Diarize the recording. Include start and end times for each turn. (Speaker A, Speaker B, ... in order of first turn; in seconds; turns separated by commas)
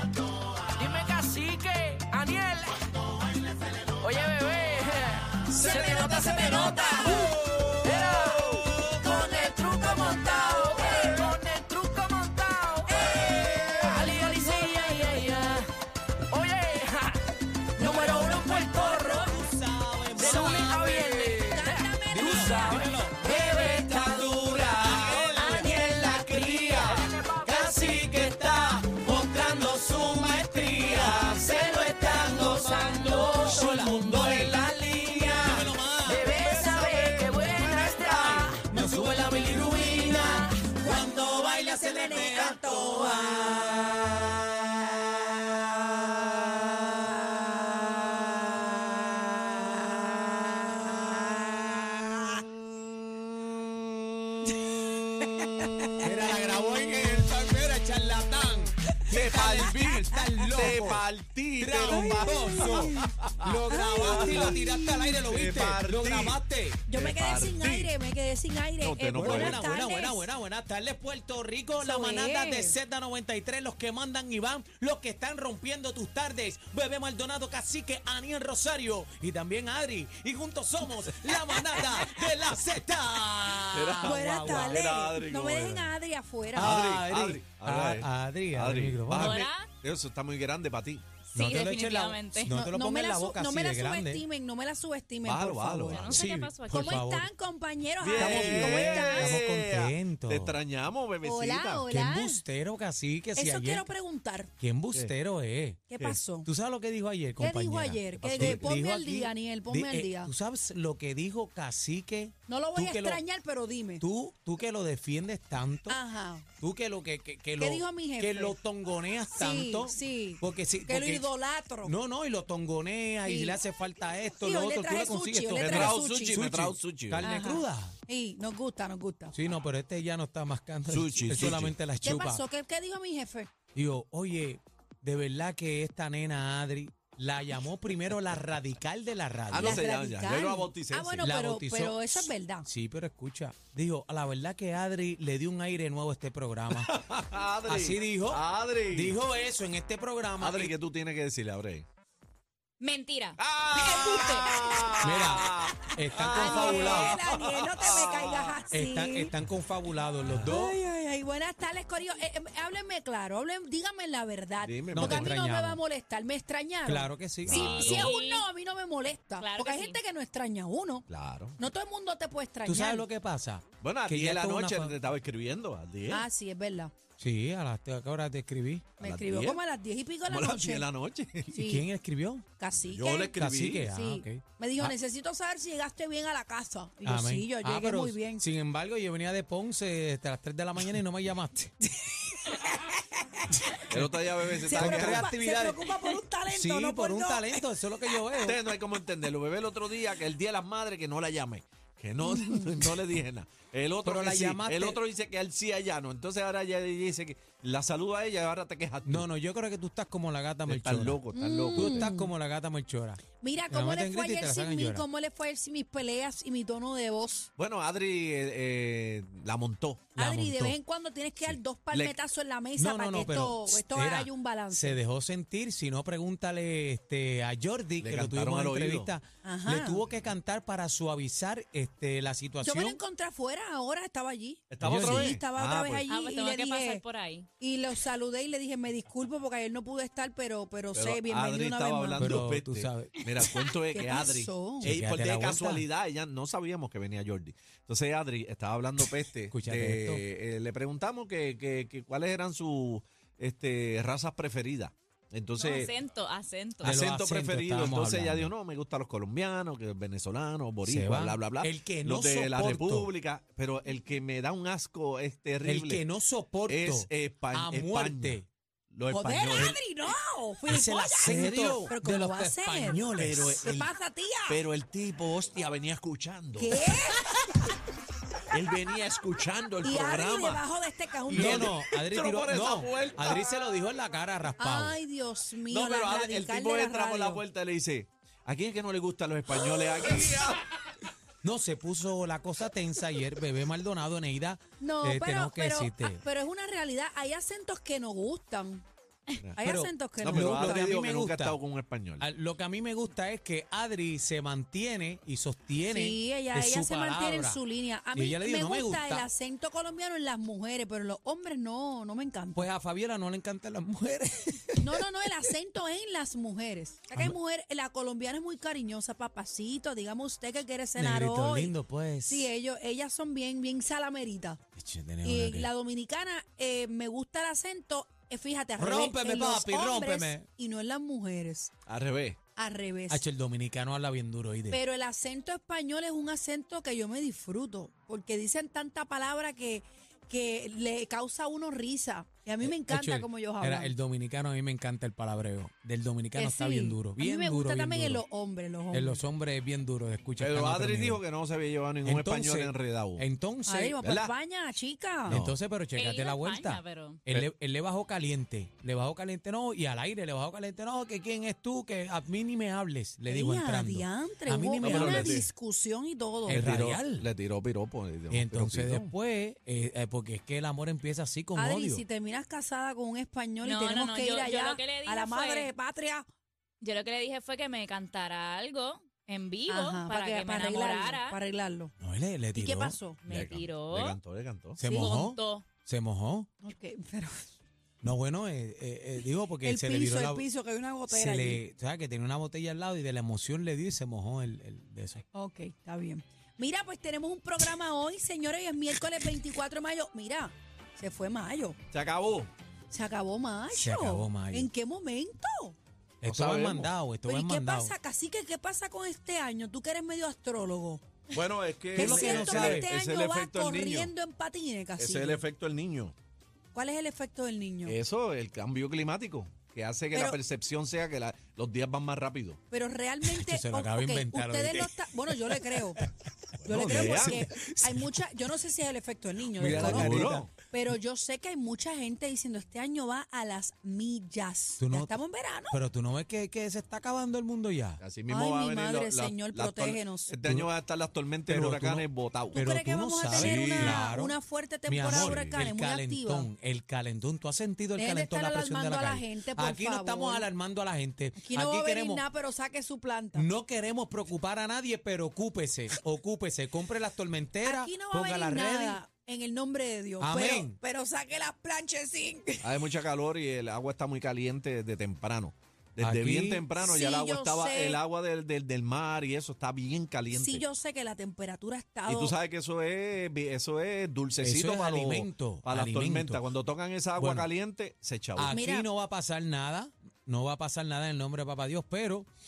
Speaker A: 0.6-2.9, Speaker A: 3.6-15.7, Speaker B: 5.5-7.4, Speaker B: 9.0-11.3, Speaker B: 12.9-15.6, Speaker A: 16.3-17.2, Speaker A: 17.8-19.3, Speaker B: 17.8-19.3, Speaker C: 18.1-21.4, Speaker B: 20.2-23.3, Speaker A: 20.2-39.2, Speaker C: 22.1-25.8, Speaker B: 25.6-26.5, Speaker C: 27.4-34.6, Speaker B: 32.2-33.8, Speaker B: 34.3-35.5, Speaker C: 35.3-36.4, Speaker B: 36.1-38.8, Speaker C: 38.1-44.4, Speaker B: 39.8-43.8, Speaker B: 55.4-55.9, Speaker C: 56.0-61.0, Speaker D: 59.1-64.5, Speaker B: 60.4-60.7, Speaker C: 61.6-66.8, Speaker B: 61.9-63.1, Speaker B: 63.7-65.2, Speaker D: 65.2-66.4, Speaker B: 66.9-70.3, Speaker D: 66.9-68.0, Speaker D: 68.8-69.7, Speaker C: 69.2-84.9, Speaker B: 71.8-72.8, Speaker D: 81.5-82.2, Speaker D: 83.5-86.0, Speaker B: 84.0-86.8, Speaker C: 86.5-89.4, Speaker D: 86.6-91.0, Speaker E: 89.1-89.7, Speaker E: 91.3-92.5, Speaker C: 91.3-94.2, Speaker B: 92.5-96.2, Speaker D: 95.2-96.3, Speaker E: 95.9-97.0, Speaker C: 96.1-97.3, Speaker B: 96.7-99.4, Speaker D: 98.0-101.8, Speaker C: 98.1-100.6, Speaker B: 101.2-102.4, Speaker C: 101.9-103.9, Speaker B: 103.4-104.5, Speaker C: 104.6-105.9, Speaker B: 105.9-106.5, Speaker C: 106.5-113.2, Speaker B: 107.4-110.3, Speaker D: 108.2-108.7, Speaker B: 112.5-114.0, Speaker C: 114.0-116.0, Speaker B: 115.9-116.5, Speaker C: 116.6-121.2, Speaker B: 117.6-118.6, Speaker B: 119.3-122.0, Speaker C: 121.8-128.0, Speaker B: 123.2-123.6, Speaker B: 124.4-126.5, Speaker D: 125.6-127.3, Speaker B: 127.2-129.3, Speaker C: 129.3-132.5, Speaker D: 130.9-131.8, Speaker B: 132.0-133.5, Speaker C: 133.8-139.8, Speaker D: 139.5-141.3, Speaker B: 139.6-142.7, Speaker C: 141.2-146.9, Speaker D: 146.8-149.2, Speaker C: 147.7-150.8, Speaker D: 150.4-151.9, Speaker E: 152.8-154.5, Speaker D: 153.4-158.6, Speaker C: 155.0-157.2, Speaker B: 156.3-159.3, Speaker C: 158.7-160.8, Speaker B: 160.4-171.1, Speaker D: 164.6-165.3, Speaker C: 164.9-165.8, Speaker C: 166.9-167.7, Speaker D: 167.5-168.1, Speaker E: 167.5-168.4, Speaker E: 169.4-170.0, Speaker D: 171.1-171.6, Speaker B: 171.6-173.1, Speaker C: 172.7-175.0, Speaker D: 173.8-176.3, Speaker B: 176.1-176.9, Speaker C: 177.2-178.9, Speaker D: 179.0-179.6, Speaker B: 179.0-180.9, Speaker D: 180.3-181.6, Speaker B: 181.5-181.9, Speaker C: 181.5-182.4, Speaker B: 182.6-188.4, Speaker D: 182.8-183.9, Speaker C: 183.3-184.9, Speaker C: 187.1-191.7, Speaker B: 191.9-193.8, Speaker C: 193.7-195.9, Speaker D: 193.9-195.2, Speaker B: 194.5-198.5, Speaker C: 196.5-198.6, Speaker D: 198.4-209.3, Speaker B: 202.2-203.0, Speaker C: 204.0-205.0, Speaker C: 209.1-211.2, Speaker D: 210.7-212.1, Speaker B: 211.3-212.3, Speaker C: 211.8-215.1, Speaker B: 213.4-217.5, Speaker D: 217.6-220.1, Speaker B: 220.2-225.0, Speaker C: 220.2-220.8, Speaker C: 222.8-233.0, Speaker D: 228.0-229.1, Speaker B: 229.4-230.1, Speaker B: 232.6-237.0, Speaker D: 234.7-236.1, Speaker C: 234.8-235.4, Speaker E: 236.1-237.5, Speaker B: 237.6-242.3, Speaker D: 240.9-256.0, Speaker C: 242.2-243.3, Speaker B: 243.6-244.9, Speaker C: 244.8-245.8, Speaker C: 249.5-250.2, Speaker E: 255.6-257.0, Speaker C: 256.8-258.5, Speaker D: 256.8-266.0, Speaker C: 260.9-263.1, Speaker C: 265.6-268.5, Speaker D: 266.7-269.8, Speaker B: 269.1-273.0, Speaker C: 270.7-273.7, Speaker D: 271.2-271.9, Speaker D: 273.2-273.9, Speaker B: 273.6-274.6, Speaker D: 274.5-276.9, Speaker B: 276.6-277.3, Speaker D: 278.5-280.6, Speaker B: 279.8-281.8, Speaker D: 281.3-283.7, Speaker C: 281.3-285.0, Speaker B: 284.6-287.4, Speaker D: 285.7-290.7, Speaker C: 291.4-296.2, Speaker B: 294.8-298.8, Speaker B: 299.6-300.8, Speaker C: 299.6-301.6, Speaker D: 300.2-302.3, Speaker C: 302.2-307.6, Speaker B: 305.9-312.7, Speaker C: 308.1-309.3, Speaker C: 312.5-315.5, Speaker B: 314.8-321.8, Speaker C: 321.0-322.5, Speaker B: 322.3-324.6, Speaker C: 324.8-325.7, Speaker B: 325.2-331.7, Speaker C: 328.8-330.5, Speaker D: 331.9-332.4, Speaker B: 332.6-333.2, Speaker C: 333.1-334.8, Speaker B: 334.7-343.9, Speaker C: 342.6-348.2, Speaker B: 346.4-349.2, Speaker C: 348.9-351.2, Speaker D: 350.4-353.2, Speaker C: 352.0-354.0, Speaker B: 353.7-355.4, Speaker D: 354.0-354.3, Speaker C: 355.3-365.4, Speaker D: 355.3-355.6, Speaker E: 355.9-357.2, Speaker B: 363.3-366.6, Speaker D: 364.8-365.5, Speaker D: 366.5-369.1, Speaker C: 366.5-367.3, Speaker C: 368.3-372.0, Speaker B: 371.6-376.3, Speaker E: 373.6-375.7, Speaker E: 376.8-381.4, Speaker B: 379.7-381.9, Speaker C: 382.0-383.0, Speaker B: 382.6-383.2, Speaker E: 383.2-384.2, Speaker D: 383.3-384.8, Speaker C: 384.8-386.5, Speaker E: 384.8-385.7, Speaker B: 386.6-387.6, Speaker C: 388.0-390.4, Speaker B: 389.6-391.6, Speaker C: 391.1-395.2, Speaker B: 395.3-401.8, Speaker D: 401.9-402.5, Speaker B: 402.9-405.8, Speaker C: 403.7-404.7, Speaker C: 406.2-407.9, Speaker D: 406.2-406.9, Speaker B: 407.2-411.0, Speaker D: 411.3-414.1, Speaker B: 411.9-415.4, Speaker C: 412.0-412.9, Speaker D: 415.0-416.1, Speaker B: 416.7-418.0, Speaker D: 417.9-422.6, Speaker B: 420.1-420.4, Speaker B: 422.7-426.0, Speaker C: 423.2-426.1, Speaker C: 426.6-428.3, Speaker D: 426.6-427.4, Speaker B: 426.6-435.8, Speaker C: 429.6-430.5, Speaker D: 429.6-430.5, Speaker C: 434.8-435.2, Speaker C: 435.7-438.0, Speaker D: 438.0-442.6, Speaker B: 438.3-440.3, Speaker C: 440.4-440.7, Speaker C: 441.5-444.4, Speaker B: 442.5-446.5, Speaker D: 443.3-444.0, Speaker C: 444.9-452.2, Speaker D: 445.0-445.6, Speaker B: 447.9-450.5, Speaker B: 451.4-453.5, Speaker C: 453.4-459.0, Speaker B: 457.6-462.9, Speaker C: 460.2-460.8, Speaker D: 462.6-470.6, Speaker C: 466.0-466.7, Speaker B: 466.8-468.0, Speaker B: 470.3-472.4, Speaker D: 472.1-478.5, Speaker C: 474.4-476.4, Speaker C: 477.2-477.5, Speaker C: 478.4-482.3, Speaker B: 478.5-478.9